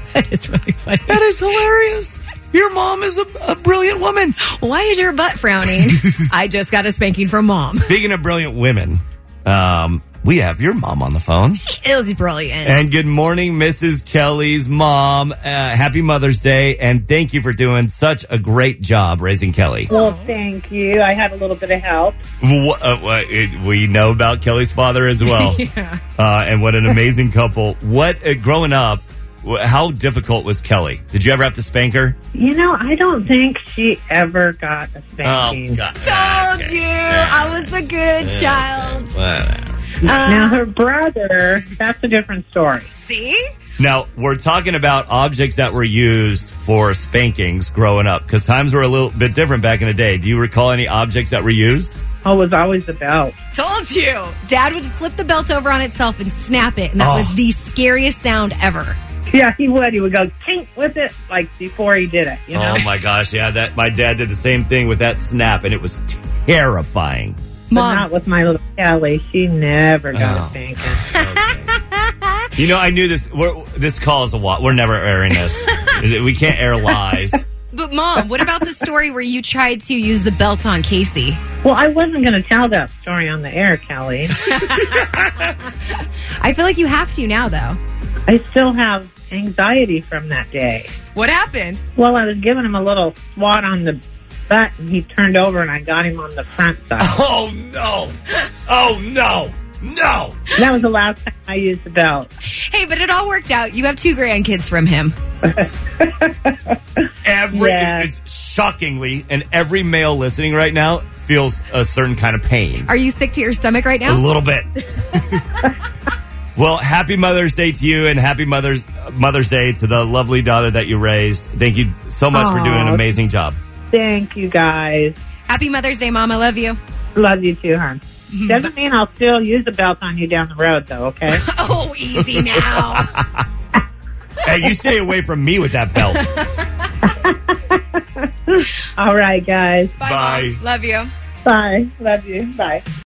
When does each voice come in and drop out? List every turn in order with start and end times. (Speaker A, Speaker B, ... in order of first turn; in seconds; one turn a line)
Speaker A: 0.1-1.2
Speaker B: 1.1-4.4
Speaker A: 4.4-7.9
Speaker B: 7.7-11.6
Speaker A: 11.6-12.8
Speaker B: 12.6-19.9
Speaker A: 19.9-20.4
Speaker C: 19.9-22.2
Speaker B: 22.4-25.6
Speaker A: 25.2-26.0
Speaker B: 26.2-32.2
Speaker C: 32.4-35.8
Speaker B: 35.2-40.0
Speaker A: 36.0-39.1
Speaker A: 40.0-40.6
Speaker C: 40.2-42.9
Speaker A: 42.9-43.4
Speaker B: 43.8-52.0
Speaker C: 52.2-53.3
Speaker A: 53.5-59.0
Speaker B: 57.0-57.4
Speaker C: 59.3-62.9
Speaker B: 62.5-67.4
Speaker A: 67.7-68.1
Speaker C: 67.7-71.0
Speaker B: 70.1-71.7
Speaker A: 71.7-72.5
Speaker B: 72.5-77.4
Speaker A: 77.7-81.4
Speaker C: 81.6-84.3
Speaker A: 84.5-85.1
Speaker A: 86.4-87.8
Speaker C: 88.3-90.9
Speaker A: 91.1-91.8
Speaker C: 92.0-97.2
Speaker B: 97.0-98.2
Speaker B: 98.7-100.5
Speaker C: 100.5-102.3
Speaker A: 102.5-105.2
Speaker C: 105.5-106.5
Speaker B: 107.2-112.9
Speaker C: 107.5-108.1
Speaker A: 112.9-114.2
Speaker B: 114.1-114.7
Speaker B: 116.6-123.6
Speaker C: 122.3-123.0
Speaker C: 123.9-125.2
Speaker A: 125.5-126.8
Speaker C: 127.2-131.4
Speaker A: 128.3-128.7
Speaker A: 131.3-133.1
Speaker B: 132.2-133.4
Speaker B: 134.4-136.2
Speaker A: 136.2-136.6
Speaker C: 137.1-137.8
Speaker C: 138.5-139.9
Speaker A: 140.0-141.1
Speaker B: 140.0-140.6
Speaker C: 141.4-142.8